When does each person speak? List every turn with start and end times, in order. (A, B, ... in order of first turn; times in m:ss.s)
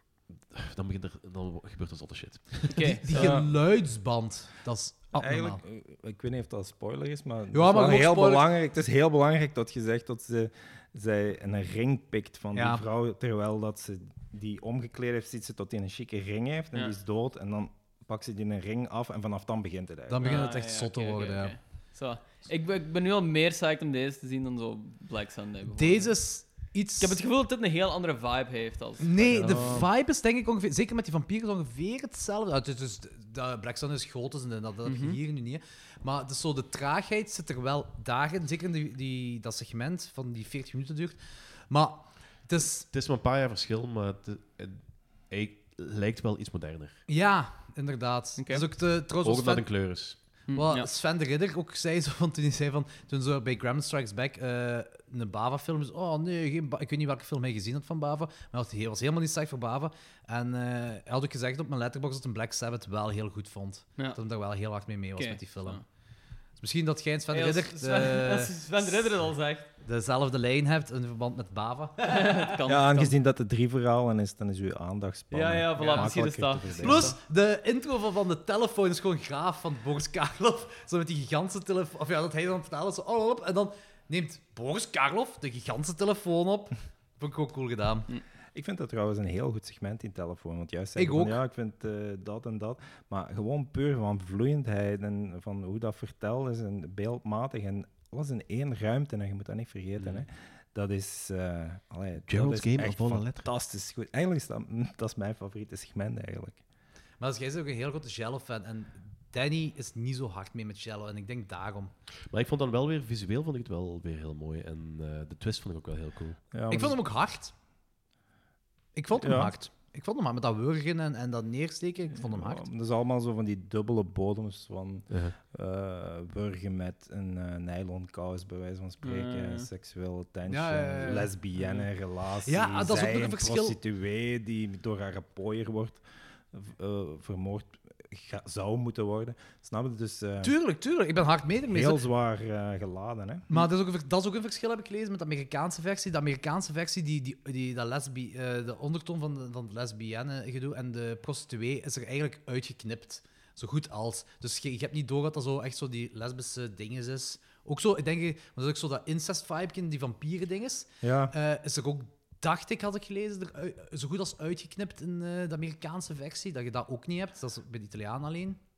0:00.5-0:03.0 A
0:02.7-0:03.3 B
0:03.0-0:05.6 C
0:03.1-0:03.5 D
0:05.2-0:20.4 D
0:07.5-0:08.5 C
0:12.5-0:12.8 C
0:20.1-0:21.6 C
0:20.2-0:29.7 B
0:25.7-0:27.2 C
0:29.0-0:42.9 C
0:29.3-0:29.9 D
0:34.8-0:35.2 B
0:42.9-0:47.0 A
0:47.1-1:05.8 C
0:48.4-0:48.6 B
0:49.0-0:50.4 A
0:50.5-0:50.9 B
1:05.2-1:05.8 B
1:06.5-1:09.2 C
1:07.3-1:09.7 B
1:09.8-1:12.4 C
1:12.1-1:13.1 B
1:12.7-1:17.2 D
1:15.3-1:17.2 B
1:15.8-1:16.1 C
1:16.8-1:28.1 C
1:28.6-1:46.6 D
1:31.0-1:31.4 C
1:40.0-1:40.2 A
1:42.3-1:43.5 A
1:47.2-1:51.9 C
1:52.3-1:56.4 A
1:56.5-1:57.0 D
1:56.7-1:57.5 C
1:59.0-2:02.7 C
1:59.2-1:59.6 D
2:02.1-2:20.6 D
2:05.1-2:05.4 A
2:09.0-2:09.7 B
2:10.5-2:11.3 C
2:12.4-2:13.8 C
2:20.4-2:22.0 C
2:21.7-2:23.5 D
2:23.5-2:48.6 C
2:41.0-2:41.3 D